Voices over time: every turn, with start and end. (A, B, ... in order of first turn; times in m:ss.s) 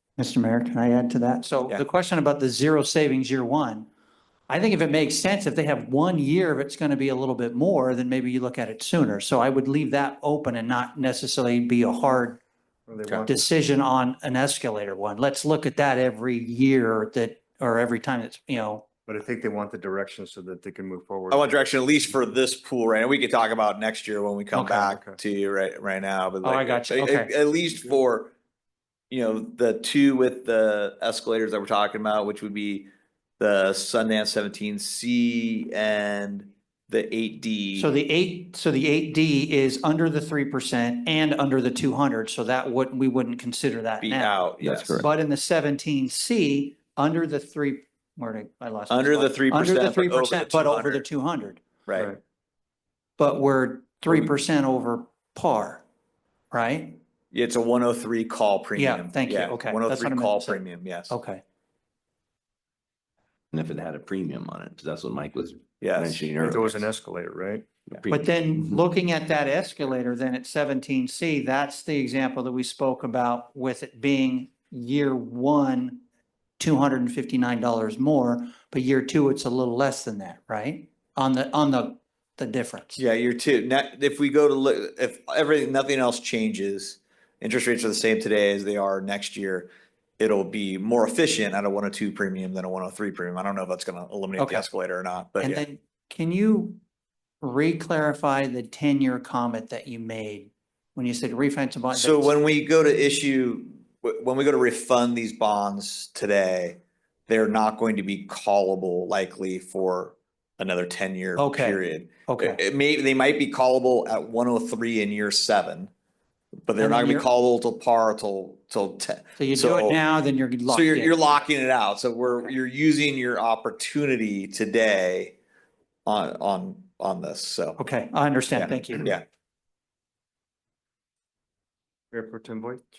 0:00.2-0:03.9 A
0:04.5-0:12.4 A
0:12.9-0:13.4 B
0:13.3-0:18.9 A
0:19.1-0:21.4 B
0:21.3-0:28.3 C
0:24.6-0:25.2 B
0:26.4-0:27.3 A
0:29.1-0:37.9 C
0:37.8-0:51.6 A
0:44.0-0:45.1 C
0:44.6-0:45.1 D
0:48.9-0:51.0 C
0:53.2-0:55.8 A
0:56.5-0:57.0 A
0:57.3-1:01.1 C
0:58.8-1:01.4 A
1:03.5-1:06.9 D
1:05.8-1:06.2 C
1:06.4-1:07.7 B
1:07.9-1:08.8 D
1:08.1-1:16.0 A
1:16.6-1:23.0 A
1:23.0-1:35.6 C
1:34.4-1:34.7 A
1:35.4-1:36.8 A
1:37.4-1:42.4 A
1:41.9-1:55.9 C
1:51.4-1:52.6 A
1:56.7-2:00.0 C
1:56.8-1:57.3 A
1:59.4-2:01.4 A
2:00.7-2:05.4 C
2:06.1-2:07.8 C
2:07.8-2:09.2 A
2:08.5-2:09.2 C
2:12.1-2:12.8 B